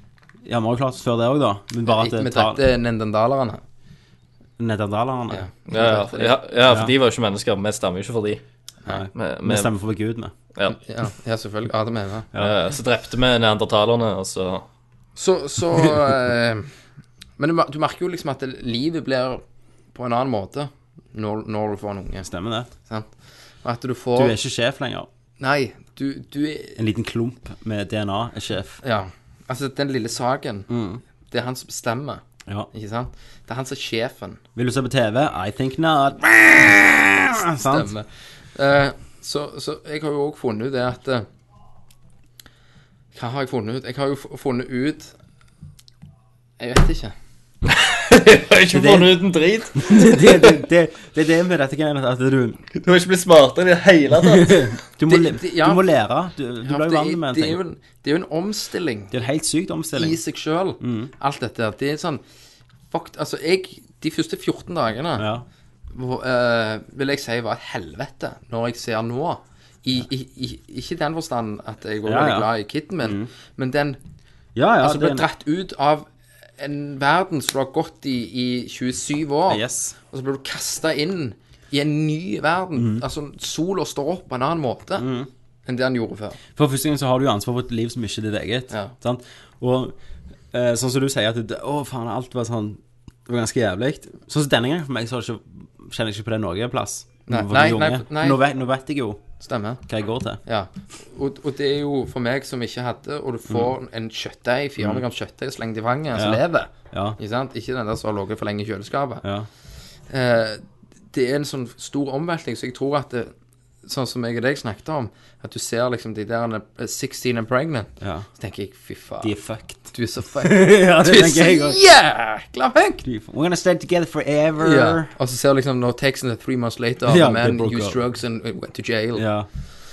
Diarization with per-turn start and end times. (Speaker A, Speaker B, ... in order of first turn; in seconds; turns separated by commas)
Speaker A: 0.5-2.6, Speaker B: 1.9-3.6, Speaker A: 4.6-5.5, Speaker B: 5.3-6.4, Speaker C: 5.7-8.4, Speaker A: 6.7-6.9, Speaker A: 8.9-10.3, Speaker C: 9.2-9.7, Speaker B: 10.8-12.3, Speaker C: 12.4-14.7, Speaker B: 15.2-16.7, Speaker B: 17.4-19.4, Speaker B: 19.9-22.3, Speaker A: 22.2-22.7, Speaker B: 23.6-24.4, Speaker A: 24.1-25.1, Speaker B: 25.4-26.8, Speaker A: 26.8-28.8, Speaker B: 28.8-30.7, Speaker A: 30.7-31.0, Speaker B: 31.3-34.4, Speaker A: 34.5-37.9, Speaker B: 37.6-41.3, Speaker B: 43.1-45.1, Speaker B: 46.6-47.1, Speaker C: 47.7-50.6, Speaker A: 48.7-49.2, Speaker A: 49.8-52.6, Speaker C: 52.8-54.7, Speaker A: 54.2-57.6, Speaker B: 55.1-55.9, Speaker B: 56.6-59.1, Speaker A: 59.1-60.2, Speaker B: 60.0-62.2, Speaker A: 60.8-61.1, Speaker B: 62.9-65.3, Speaker A: 65.2-65.5, Speaker B: 65.9-74.0, Speaker A: 72.0-72.5, Speaker A: 73.0-73.3, Speaker A: 74.5-75.3, Speaker B: 74.8-76.1, Speaker B: 76.6-85.1, Speaker A: 79.5-80.0, Speaker A: 82.8-83.0, Speaker A: 85.0-85.3, Speaker B: 85.7-86.4, Speaker A: 86.6-90.0, Speaker A: 90.5-99.2, Speaker B: 97.3-98.4, Speaker B: 99.4-99.8, Speaker A: 99.9-100.4, Speaker B: 100.5-109.2, Speaker A: 106.2-107.2, Speaker A: 109.2-109.5, Speaker B: 110.1-113.3, Speaker B: 113.8-119.3, Speaker A: 118.0-118.3, Speaker A: 119.2-121.8, Speaker B: 119.9-123.0, Speaker A: 123.0-125.1, Speaker B: 124.6-129.2, Speaker A: 127.0-128.0, Speaker A: 129.2-129.5